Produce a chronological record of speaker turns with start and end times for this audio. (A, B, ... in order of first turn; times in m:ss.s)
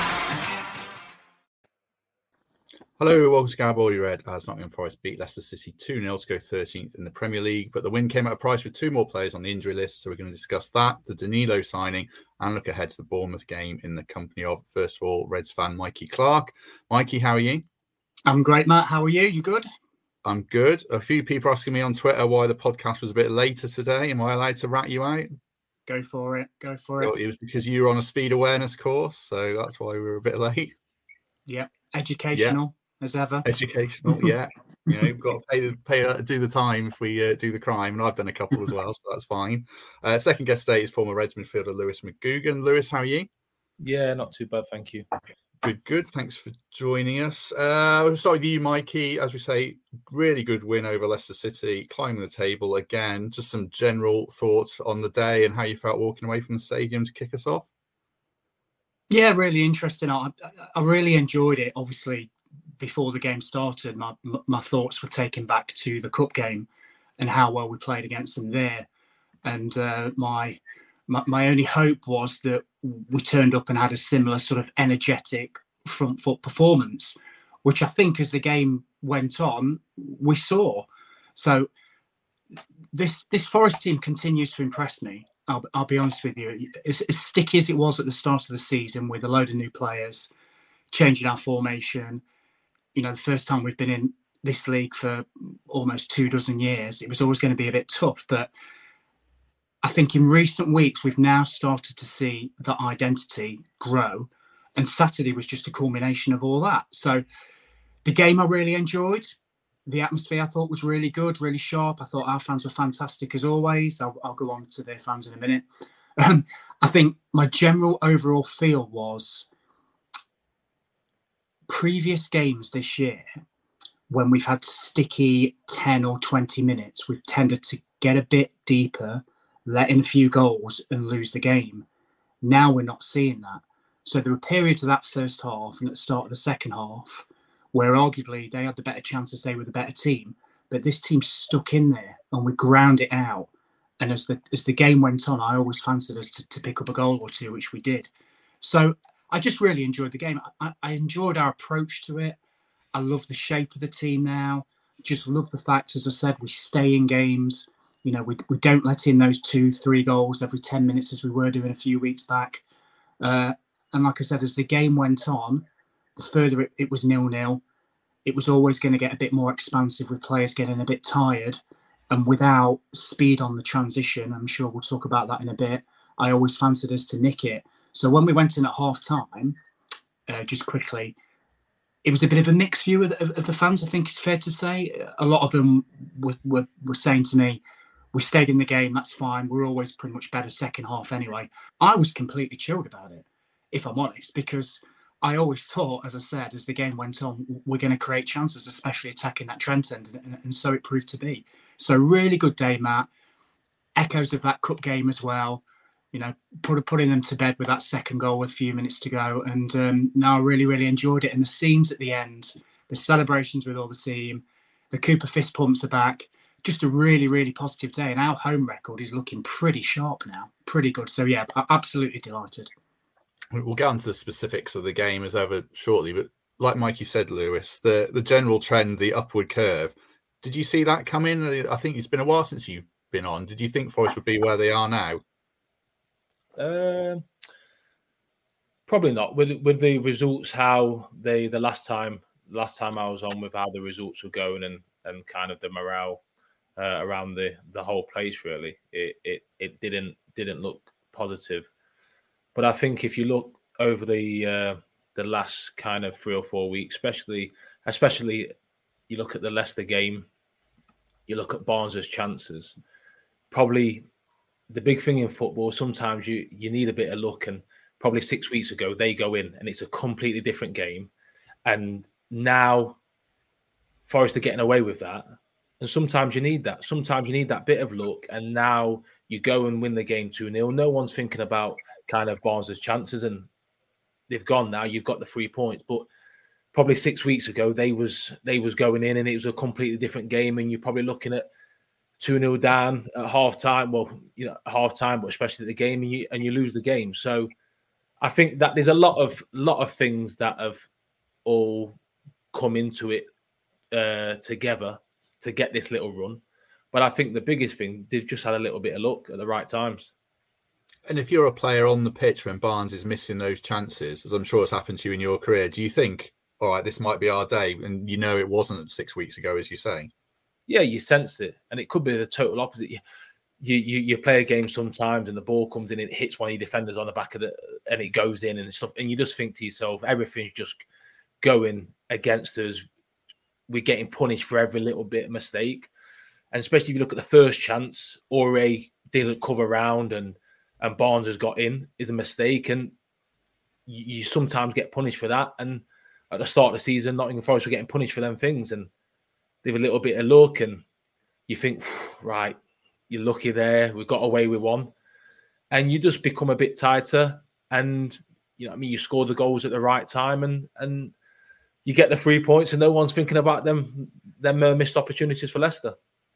0:03.0-0:17.6 A
0:18.3-0:19.7 B
0:20.2-0:25.3 A
0:25.9-0:27.1 B
0:27.0-0:30.7 A
0:31.5-0:33.4 B
0:32.3-0:32.6 A
0:33.4-0:43.3 A
0:43.8-0:45.1 C
0:45.6-0:57.7 A
0:59.1-1:06.7 B
1:07.2-1:08.9 B
1:09.4-1:21.7 B
1:22.9-1:30.3 B
1:30.9-1:32.2 B
1:32.9-1:38.5 B
1:39.8-1:47.2 B
1:48.0-1:49.3 B
1:49.9-1:55.6 B
1:56.2-1:59.5 B
2:01.7-2:03.3 B
2:04.1-2:11.9 B
2:12.4-2:23.5 B
2:24.0-2:32.4 B
2:32.9-2:42.6 B
2:43.2-2:45.6 B
2:46.2-2:47.6 B
2:48.2-2:51.6 B
2:52.1-2:59.6 B
3:00.3-3:01.2 B
3:02.0-3:07.6 B
3:08.1-3:23.1 B
3:24.0-3:42.7 B
3:43.5-3:55.2 A
3:56.6-3:57.2 C
3:58.9-4:06.2 C
4:06.8-4:11.7 C
4:12.5-4:18.5 C
4:19.1-4:20.3 C
4:21.3-4:22.8 C
4:23.5-4:24.1 C
4:24.7-4:31.1 C
4:31.6-4:33.0 C
4:34.1-4:35.3 C
4:35.8-4:43.5 C
4:44.3-4:46.1 C
4:46.7-4:51.5 C
4:52.2-4:57.5 C
4:58.2-5:00.9 C
5:01.4-5:02.0 C
5:02.5-5:03.3 C
5:03.9-5:06.4 C
5:06.9-5:10.1 C
5:11.1-5:20.1 A
5:20.7-5:23.0 C
5:23.6-5:30.8 C
5:31.4-5:32.8 C
5:33.7-5:35.9 C
5:36.5-5:42.9 C
5:43.9-5:48.9 C
5:49.6-5:50.8 C
5:51.5-5:52.6 C
5:53.1-5:54.9 C
5:55.7-6:01.1 C
6:01.8-6:06.0 C